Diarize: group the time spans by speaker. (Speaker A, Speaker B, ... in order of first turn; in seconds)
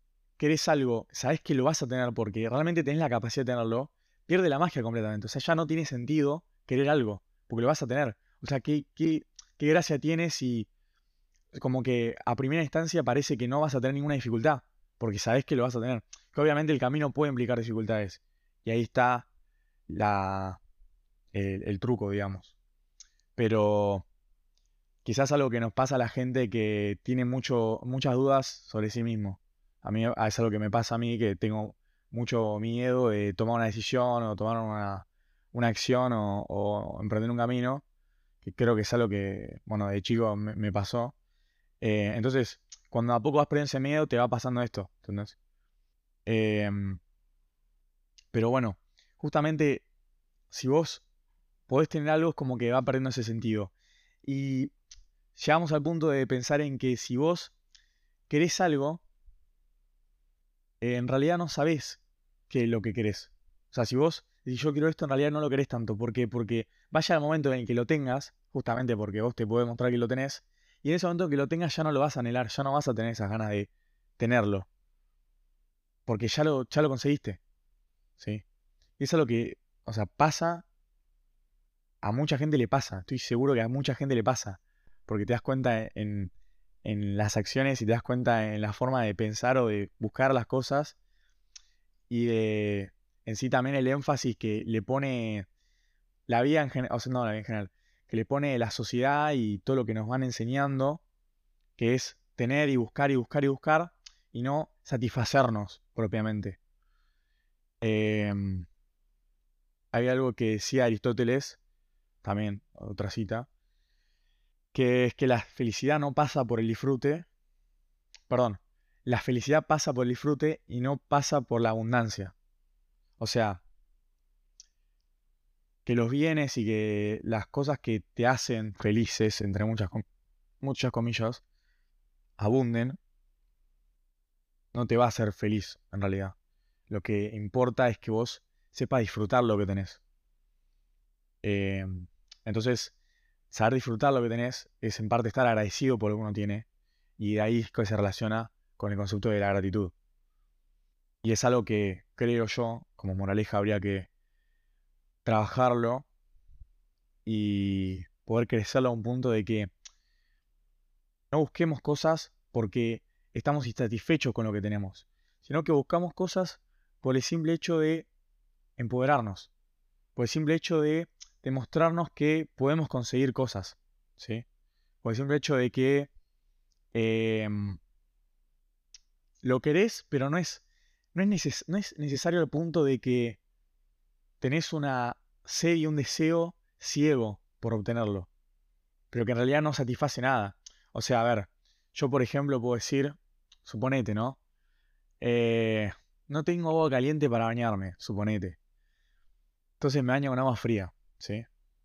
Speaker A: 0.4-10.7, 11.5-19.3, 19.9-20.6, 21.3-22.5, 23.4-24.1, 25.0-37.8, 38.4-41.1, 41.8-45.4, 46.2-47.0, 48.3-49.9, 50.5-51.0, 51.7-53.7, 54.2-54.7, 55.3-57.5, 58.3-59.0, 60.8-74.7, 76.0-77.4, 78.2-78.4, 79.0-80.7, 82.0-86.3, 86.8-91.0, 92.1-95.5, 96.3-101.0, 101.8-106.6, 107.8-108.7, 109.9-111.6, 112.2-113.5, 114.7-117.3, 118.3-122.3, 123.2-123.6, 125.8-130.0, 130.6-131.4, 132.4-133.0, 134.7-136.3, 136.9-140.0, 141.4-142.9, 143.5-146.7, 147.2-149.9, 151.2-154.1, 155.2-156.1, 157.2-159.7, 161.3-168.1, 168.8-169.5, 170.1-174.4, 175.0-176.1, 176.9-177.8, 179.4-180.6, 181.1-183.4, 184.4-188.3, 189.1-194.4, 195.2-198.6, 199.8-201.4